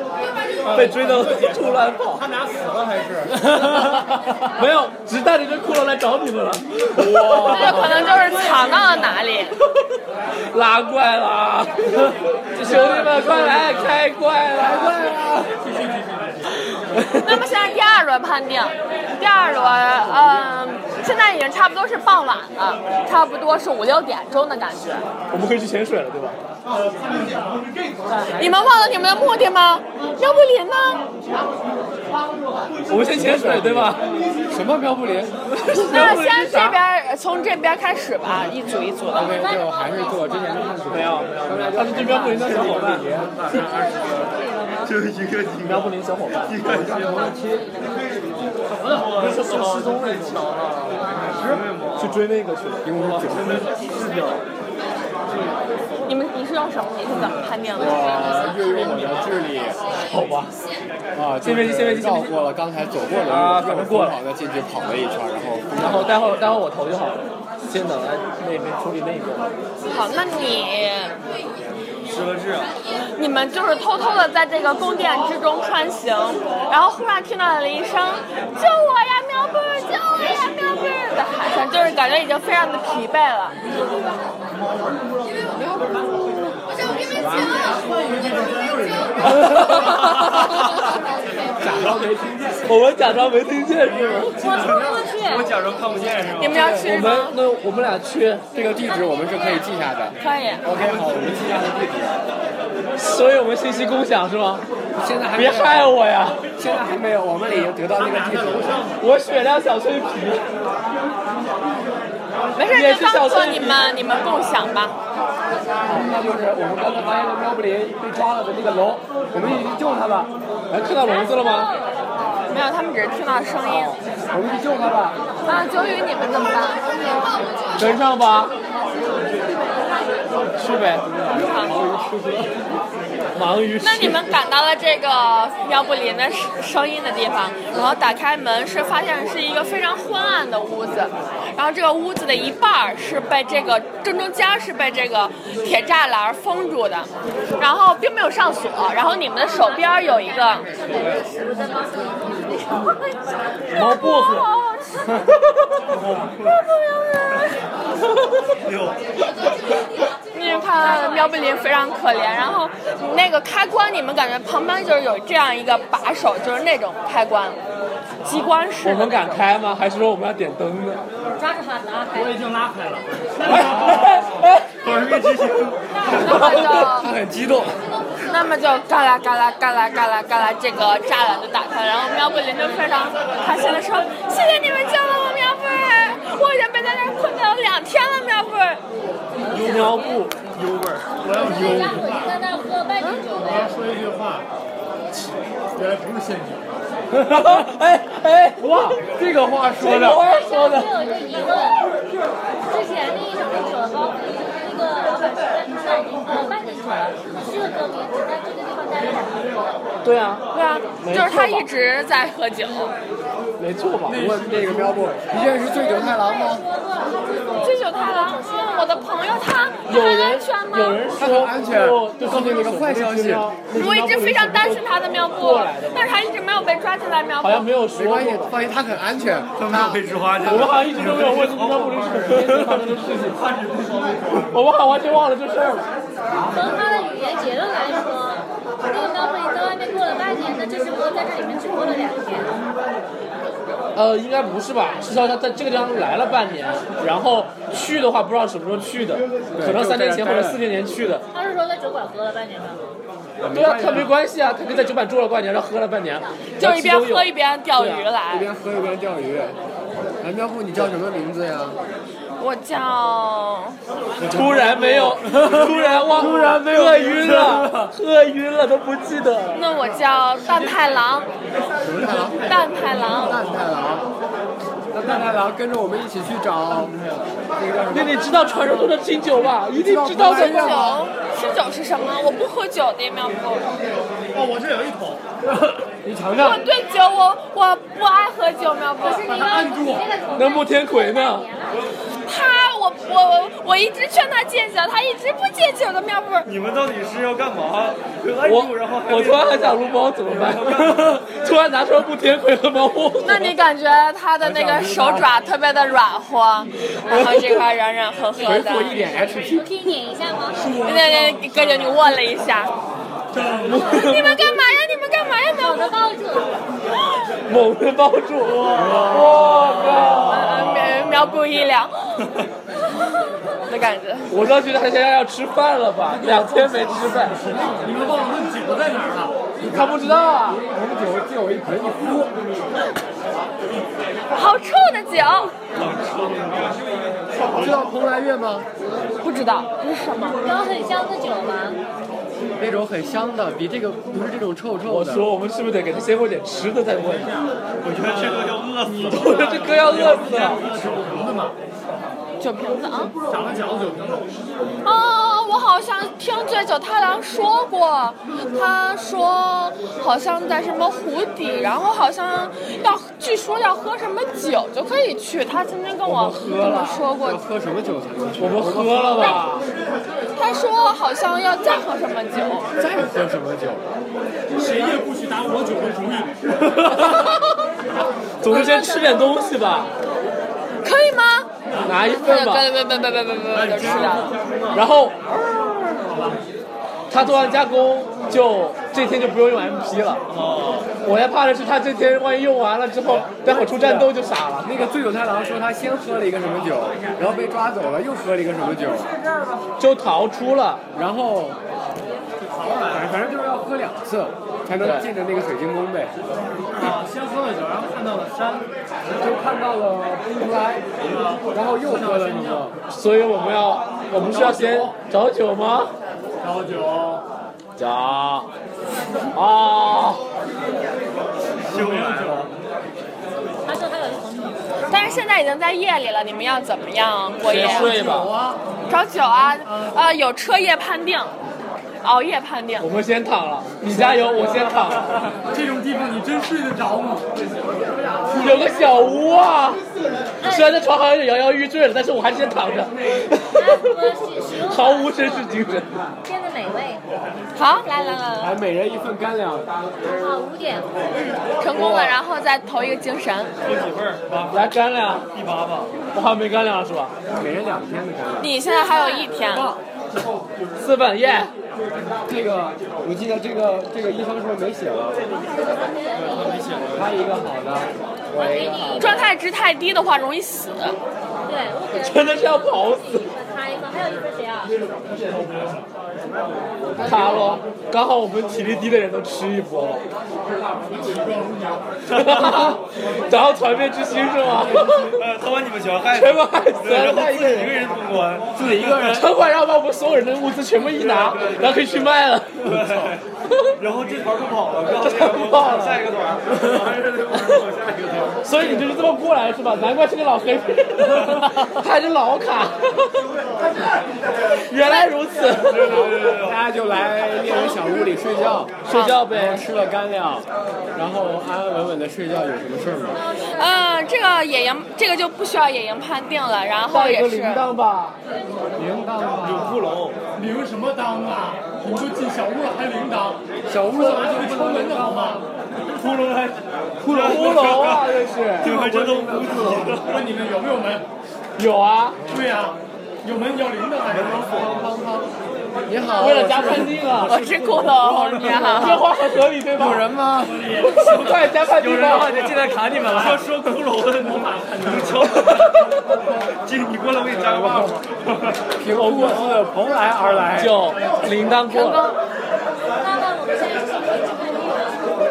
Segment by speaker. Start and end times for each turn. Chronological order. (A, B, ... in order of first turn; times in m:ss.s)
0:00.6-0:03.5 A
0:00.7-0:02.2 B
0:03.3-0:08.0 B
0:07.0-0:07.9 C
0:07.4-0:09.6 D
0:08.1-0:09.0 A
0:10.5-0:15.5 B
0:12.6-0:13.9 A
0:14.7-0:15.0 C
0:15.6-0:16.5 A
0:16.9-0:17.4 B
0:17.2-0:25.0 D
0:25.3-0:26.4 B
0:26.8-0:27.6 A
0:28.3-0:31.1 D
0:32.9-0:34.0 B
0:32.9-0:35.3 C
0:35.5-0:36.8 B
0:35.7-0:39.4 D
0:39.1-0:40.9 E
0:39.1-0:43.4 C
0:40.9-0:43.1 B
0:42.2-0:44.2 F
0:43.6-0:44.9 E
0:44.8-0:47.5 F
0:45.6-0:46.6 B
0:46.7-0:47.6 C
0:48.6-0:52.2 F
0:48.7-0:50.1 A
0:52.0-0:52.9 B
0:52.8-0:53.7 C
0:53.0-0:54.4 F
0:56.0-0:59.1 D
0:57.7-0:59.8 C
1:00.0-1:00.5 B
1:01.1-1:06.4 C
1:01.4-1:02.3 B
1:03.2-1:04.2 B
1:05.8-1:09.5 B
1:09.9-1:11.1 D
1:12.0-1:12.7 F
1:13.2-1:23.6 D
1:25.6-1:26.5 D
1:27.2-1:27.5 B
1:27.3-1:30.2 A
1:29.2-1:30.6 B
1:31.6-1:32.6 C
1:32.6-1:34.4 B
1:34.4-1:35.5 E
1:34.4-1:34.8 A
1:34.4-1:36.8 F
1:36.4-1:37.4 D
1:36.6-1:36.8 C
1:36.8-1:38.4 B
1:38.5-1:42.2 C
1:40.2-1:40.6 D
1:43.0-1:44.6 B
1:45.0-1:46.0 C
1:45.3-1:46.4 B
1:46.6-1:48.8 C
1:47.9-1:49.0 A
1:49.0-1:50.4 B
1:52.6-1:54.9 D
1:52.7-1:53.8 B
1:55.8-2:00.3 C
2:00.7-2:01.7 B
2:00.8-2:02.3 E
2:02.5-2:04.0 D
2:03.7-2:04.0 B
2:04.3-2:05.2 C
2:05.4-2:06.8 D
2:07.8-2:08.5 B
2:09.1-2:10.4 E
2:10.5-2:11.0 B
2:11.1-2:12.5 C
2:11.3-2:11.7 D
2:13.3-2:14.3 B
2:13.8-2:30.7 D
2:29.4-2:33.6 E
2:30.8-2:31.2 F
2:33.7-2:35.2 D
2:33.7-2:34.5 B
2:35.9-2:36.6 F
2:36.5-2:37.6 D
2:38.6-2:39.0 F
2:40.3-2:47.6 D
2:40.7-2:41.8 E
2:48.2-2:49.4 D
2:48.8-2:51.0 B
2:51.3-2:52.5 E
2:52.1-2:54.2 A
2:53.4-2:54.7 B
2:53.6-2:54.0 F
2:54.8-2:56.5 F
2:56.1-2:57.1 D
2:56.2-2:56.9 B
2:56.3-2:57.8 C
2:58.3-3:08.8 D
3:09.5-3:09.9 F
3:09.5-3:10.2 E
3:09.5-3:10.3 B
3:10.4-3:11.2 F
3:11.2-3:12.4 A
3:11.3-3:13.7 E
3:13.3-3:14.4 A
3:15.7-3:16.8 A
3:17.1-3:19.0 B
3:18.6-3:20.2 C
3:19.8-3:20.9 B
3:20.0-3:21.9 E
3:22.7-3:29.8 E
3:30.0-3:30.4 B
3:30.5-3:32.9 D
3:31.0-3:31.7 B
3:33.6-3:34.2 B
3:34.1-3:35.3 A
3:34.1-3:36.6 C
3:35.3-3:39.8 E
3:37.6-3:41.0 D
3:39.9-3:46.1 B
3:41.1-3:43.5 C
3:43.7-3:47.7 D
3:47.4-3:48.5 B
3:47.9-3:50.0 C
3:49.6-3:54.5 F
3:50.4-3:53.3 B
3:53.3-3:54.4 A
3:54.5-3:55.9 B
3:56.5-4:02.6 E
4:03.9-4:11.2 B
4:09.5-4:10.6 C
4:11.3-4:12.8 E
4:13.4-4:14.2 C
4:13.5-4:18.0 B
4:16.6-4:18.5 D
4:18.3-4:19.6 C
4:20.2-4:21.8 C
4:22.4-4:23.8 D
4:24.2-4:27.9 C
4:24.2-4:29.6 B
4:26.2-4:26.6 A
4:29.5-4:31.3 D
4:31.8-4:32.5 C
4:31.9-4:32.3 A
4:32.4-4:33.4 D
4:33.1-4:34.1 C
4:34.9-4:38.5 C
4:37.9-4:40.8 B
4:39.7-4:41.1 C
4:40.1-4:43.7 D
4:44.3-4:45.2 A
4:45.9-4:46.7 C
4:46.4-4:49.3 D
4:49.0-4:51.9 E
4:49.2-4:50.1 A
4:50.3-4:51.5 B
4:52.3-4:56.5 D
4:56.4-5:01.2 F
4:58.4-5:03.6 B
5:03.2-5:09.0 D
5:04.4-5:05.3 C
5:07.1-5:07.4 E
5:08.4-5:09.7 C
5:08.6-5:10.8 E
5:10.5-5:12.0 A
5:10.7-5:12.7 D
5:13.3-5:13.9 A
5:13.6-5:14.6 B
5:13.8-5:16.0 D
5:15.6-5:16.7 E
5:17.5-5:20.8 B
5:18.4-5:20.5 A
5:18.7-5:19.4 C
5:20.3-5:22.1 D
5:23.7-5:24.3 D
5:24.3-5:27.4 B
5:26.8-5:27.5 C
5:27.6-5:29.4 A
5:29.6-5:30.6 B
5:29.6-5:32.3 C
5:34.3-5:35.5 D
5:35.7-5:37.9 F
5:37.4-5:38.7 C
5:39.2-5:40.4 D
5:40.4-5:41.8 E
5:42.6-5:45.3 C
5:44.9-5:47.3 B
5:47.1-5:51.6 A
5:47.8-5:51.1 F
5:49.1-5:50.6 B
5:52.4-5:53.1 D
5:53.3-5:54.3 A
5:54.8-6:07.4 D
6:06.0-6:07.0 B
6:07.2-6:09.5 C
6:08.4-6:09.6 B
6:10.4-6:12.7 D
6:12.8-6:13.9 C
6:14.5-6:16.4 A
6:16.6-6:17.4 B
6:18.4-6:19.9 B
6:18.5-6:19.5 E
6:18.5-6:18.9 D
6:20.8-6:21.5 D
6:21.8-6:22.7 B
6:22.1-6:24.3 D
6:23.5-6:26.4 A
6:23.8-6:24.8 F
6:24.7-6:25.2 B
6:27.1-6:30.2 B
6:30.3-6:30.9 F
6:31.0-6:34.8 B
6:33.2-6:39.1 C
6:39.0-6:39.6 A
6:39.8-6:40.8 B
6:40.9-6:41.6 C
6:42.4-6:43.3 A
6:42.9-6:46.1 C
6:44.8-6:45.1 B
6:46.7-6:48.7 A
6:49.2-6:50.8 C
6:51.0-6:52.7 A
6:51.5-6:52.7 C
6:52.9-6:55.9 B
6:54.1-6:54.9 A
6:56.4-6:57.2 A
6:57.8-6:58.5 B
6:59.3-7:00.2 B
7:01.6-7:02.5 F
7:01.6-7:02.5 A
7:03.6-7:04.6 E
7:04.9-7:07.9 D
7:07.4-7:08.3 B
7:07.5-7:08.6 A
7:08.9-7:11.3 D
7:09.6-7:10.0 A
7:12.0-7:12.9 D
7:12.8-7:15.2 B
7:13.9-7:14.6 A
7:15.4-7:17.3 A
7:18.3-7:18.6 A
7:18.3-7:19.8 B
7:20.4-7:20.8 E
7:20.4-7:24.0 B
7:23.5-7:25.6 E
7:24.7-7:25.9 B
7:26.2-7:27.0 E
7:27.5-7:28.6 D
7:28.4-7:29.7 C
7:30.0-7:30.9 E
7:31.6-7:33.5 D
7:31.7-7:32.2 C
7:33.6-7:34.6 F
7:34.5-7:35.3 B
7:35.3-7:35.9 F
7:36.1-7:37.1 B
7:37.3-7:38.5 C
7:38.4-7:39.7 D
7:38.6-7:39.6 E
7:40.8-7:41.5 B
7:42.3-7:45.2 C
7:45.4-7:46.8 E
7:46.3-7:46.9 F
7:46.9-7:49.0 C
7:48.3-7:49.3 E
7:49.0-7:51.0 D
7:51.4-7:54.8 E
7:51.9-7:53.3 B
7:55.2-7:55.8 A
7:57.0-7:57.4 F
7:57.0-8:00.0 B
8:00.8-8:01.8 A
8:02.1-8:02.8 F
8:02.1-8:05.2 B
8:04.5-8:05.1 A
8:05.0-8:08.9 F
8:06.1-8:07.8 B
8:08.5-8:09.3 C
8:08.9-8:12.7 B
8:10.9-8:12.1 F
8:12.6-8:13.2 F
8:12.8-8:13.1 C
8:13.8-8:18.8 F
8:15.0-8:16.1 B
8:18.4-8:23.2 B
8:24.5-8:26.1 B
8:25.5-8:26.6 F
8:25.8-8:33.2 C
8:28.8-8:29.6 B
8:28.9-8:29.1 D
8:33.1-8:33.9 E
8:33.5-8:37.6 D
8:36.9-8:38.2 B
8:38.8-8:39.8 C
8:39.4-8:40.2 F
8:40.3-8:45.4 A
8:43.7-8:45.4 C
8:46.3-8:48.7 B
8:47.0-8:50.3 F
8:48.6-8:49.8 C
8:48.8-8:51.0 A
8:51.6-8:52.2 B
8:52.3-8:54.7 A
8:54.1-8:54.9 F
8:54.6-8:55.2 C
8:55.9-8:57.1 C
8:56.2-8:57.4 B
8:57.1-8:58.7 F
8:57.2-8:59.0 D
8:58.4-9:00.1 B
8:58.6-8:58.9 C
8:59.7-9:00.8 C
9:00.4-9:01.0 A
9:00.8-9:03.4 B
9:00.8-9:05.9 F
9:03.2-9:03.4 A
9:04.1-9:05.3 A
9:06.6-9:08.6 F
9:07.3-9:07.9 C
9:08.8-9:10.8 C
9:08.9-9:09.5 B
9:10.6-9:12.0 B
9:11.7-9:12.2 D
9:12.9-9:15.1 E